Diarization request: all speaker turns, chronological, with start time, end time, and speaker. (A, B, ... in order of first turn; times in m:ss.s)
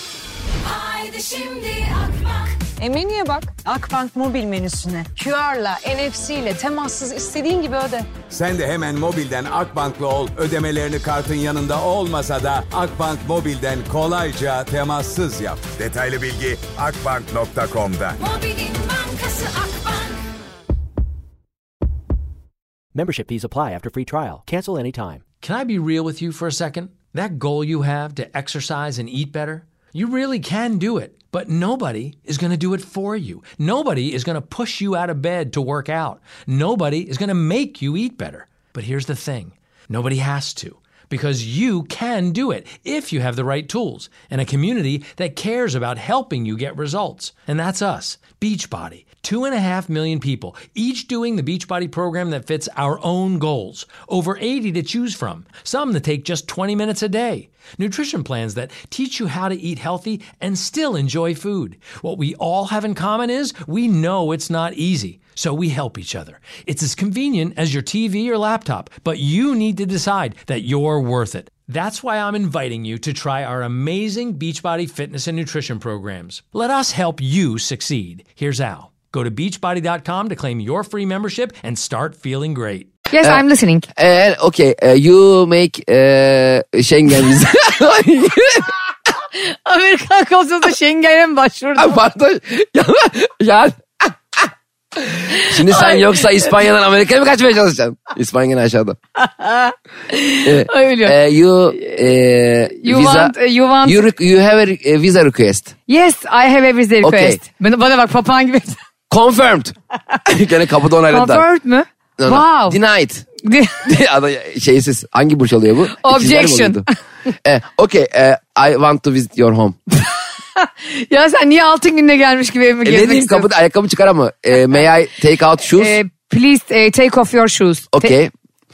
0:00.6-0:08.1 A
0:08.3-0:18.2 B
0:18.2-0:20.2 A
0:22.9-0:25.2 C
0:25.4-1:22.9 D
1:23.1-1:23.9 E
1:23.9-1:28.7 F
1:29.4-1:32.0 E
1:31.8-1:34.5 F
1:35.0-1:39.0 F
1:35.6-1:36.2 E
1:39.2-1:41.2 E
1:40.4-1:45.7 F
1:42.8-1:44.0 E
1:45.9-1:48.8 E
1:47.0-1:47.4 F
1:49.1-1:49.7 F
1:50.3-1:51.4 F
1:51.1-1:52.8 E
1:52.2-1:53.3 F
1:53.4-1:53.8 E
1:53.8-1:56.8 F
1:56.0-1:56.8 E
1:57.4-1:59.8 F
2:00.6-2:03.5 E
2:02.8-2:06.0 F
2:05.8-2:08.1 E
2:07.9-2:08.3 F